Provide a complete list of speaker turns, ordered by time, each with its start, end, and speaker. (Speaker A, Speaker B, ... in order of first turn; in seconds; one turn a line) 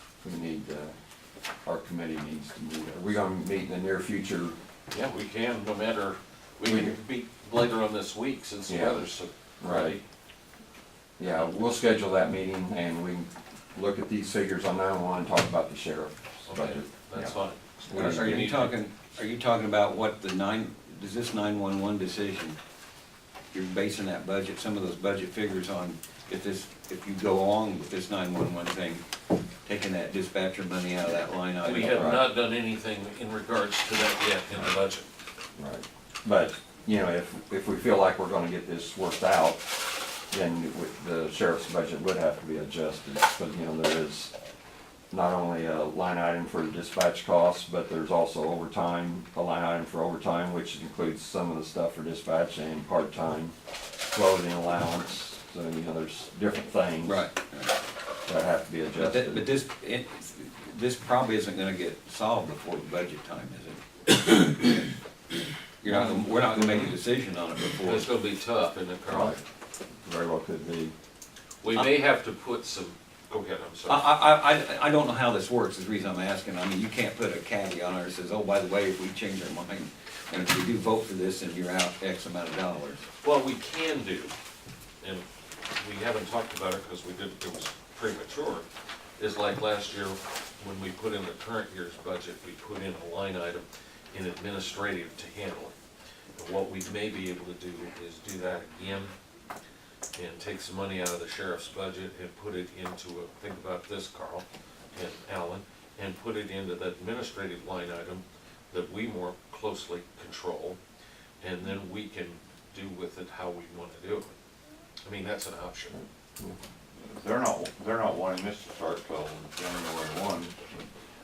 Speaker A: 0.2-0.9
Speaker A: 1.6-4.5
Speaker B: 4.9-10.0
Speaker A: 6.6-7.0
Speaker A: 8.7-9.0
Speaker A: 9.6-10.0
Speaker A: 11.2-18.5
Speaker B: 16.5-18.8
Speaker C: 17.9-22.6
Speaker C: 23.5-29.0
Speaker C: 29.6-32.1
Speaker B: 31.6-35.1
Speaker A: 31.9-32.2
Speaker A: 35.6-44.3
Speaker A: 45.1-53.5
Speaker A: 54.0-57.2
Speaker C: 57.0-57.8
Speaker A: 58.2-59.5
Speaker C: 58.9-64.9
Speaker C: 65.8-68.1
Speaker A: 65.8-66.9
Speaker B: 67.8-69.4
Speaker A: 69.1-69.4
Speaker A: 70.0-70.9
Speaker B: 71.6-74.1
Speaker C: 73.8-83.0
Speaker B: 83.2-84.3
Speaker B: 85.0-88.7
Speaker B: 89.2-95.8
Speaker B: 96.3-99.1
Speaker B: 100.1-110.8
Speaker B: 111.4-114.3
Speaker B: 115.0-115.9
Speaker A: 115.9-116.5
Speaker D: 117.0-120.8